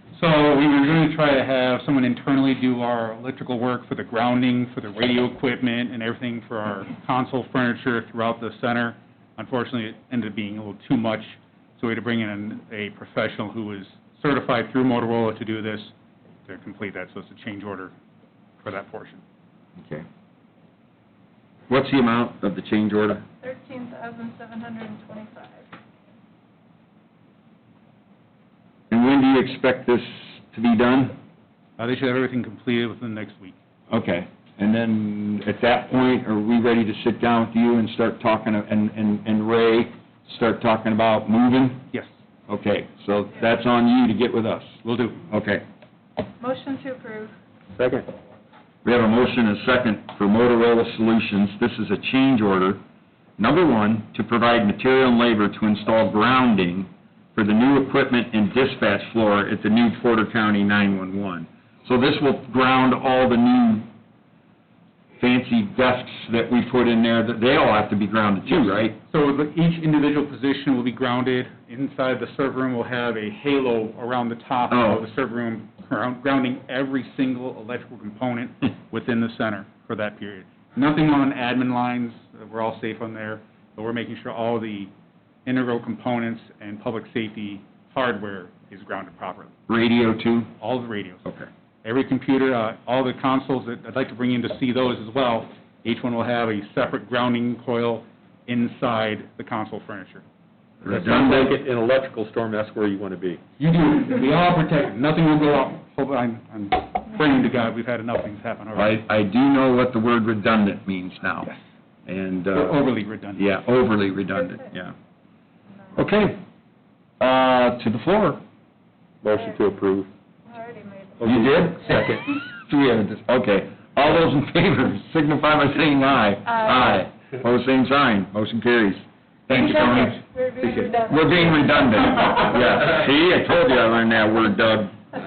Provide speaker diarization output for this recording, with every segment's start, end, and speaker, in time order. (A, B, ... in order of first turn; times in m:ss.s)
0:00.1-0:15.9 A
0:16.4-0:17.9 A
0:18.6-0:19.2 A
0:21.7-0:23.2 B
0:23.4-0:25.6 C
0:28.9-0:31.1 B
0:31.8-0:33.5 A
0:33.9-0:41.8 B
0:42.5-0:45.6 B
0:44.8-0:45.2 A
0:46.4-0:47.3 C
0:47.8-0:48.0 D
0:48.8-0:52.8 B
0:53.4-1:03.8 B
1:05.2-1:09.0 B
1:08.5-1:24.9 A
1:14.7-1:15.0 B
1:25.4-1:29.5 A
1:29.7-1:30.5 B
1:30.6-1:31.2 A
1:31.8-1:40.2 A
1:40.8-1:41.5 B
1:40.8-1:43.4 D
1:43.6-1:49.0 A
1:48.7-1:51.5 B
1:52.0-1:52.8 B
1:52.5-1:53.5 A
1:53.4-1:54.9 B
1:55.9-1:56.4 B
1:57.2-1:58.4 B
1:59.2-2:00.1 D
2:00.4-2:01.3 C
2:01.2-2:02.3 D
2:01.2-2:01.9 B
2:02.5-2:10.2 B
2:06.5-2:07.0 C
2:09.5-2:12.1 C
2:11.0-2:15.0 B